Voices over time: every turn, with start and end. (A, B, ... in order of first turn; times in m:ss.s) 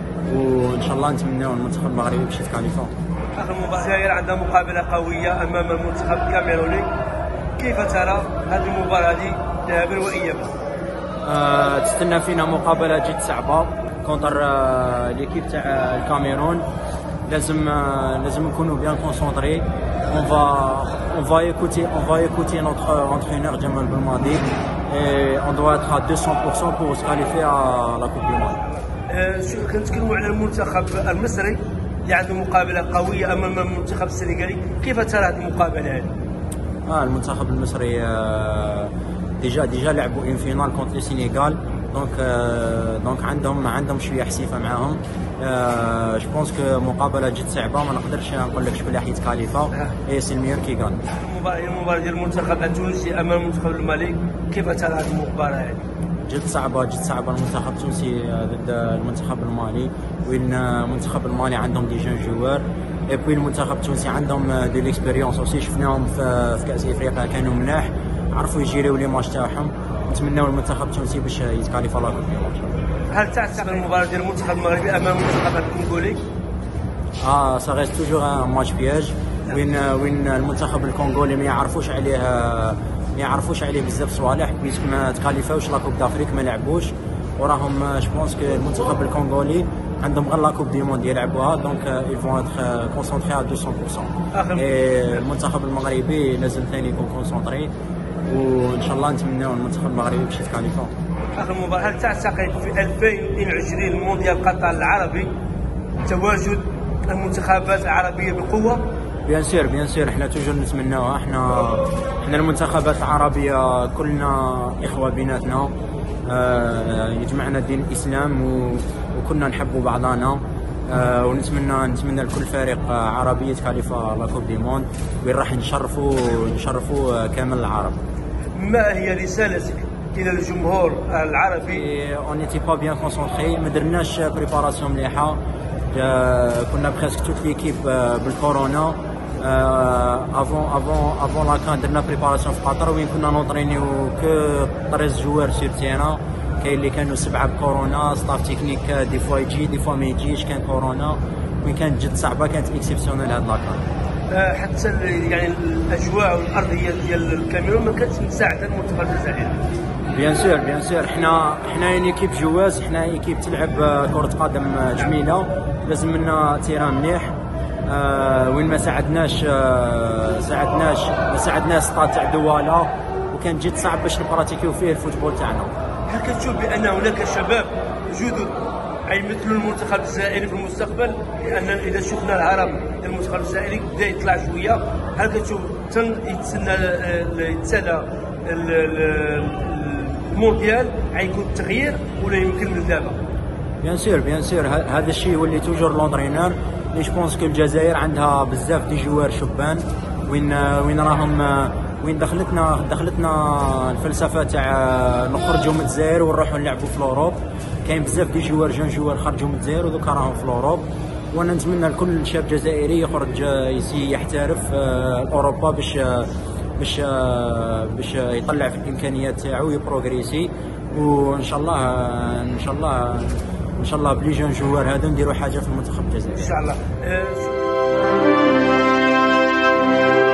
0:00.2-0:02.9 A
0:03.4-0:06.9 B
0:07.6-0:10.5 B
0:11.2-0:16.6 A
0:17.2-0:28.6 A
0:29.1-0:36.1 B
0:36.9-0:51.0 A
0:51.1-0:55.9 B
0:56.3-1:12.8 A
1:13.1-1:16.2 B
1:17.2-1:37.7 A
1:34.3-1:34.8 B
1:38.2-1:40.9 A
1:41.4-1:45.3 B
1:46.0-1:48.8 B
1:49.2-1:55.7 A
1:56.3-2:08.0 A
2:08.5-2:11.8 B
2:11.7-2:15.4 A
2:15.9-2:33.8 A
2:34.3-2:39.6 B
2:40.1-2:55.7 A
2:56.1-3:13.2 B
3:13.8-3:46.6 A
3:46.3-3:47.6 B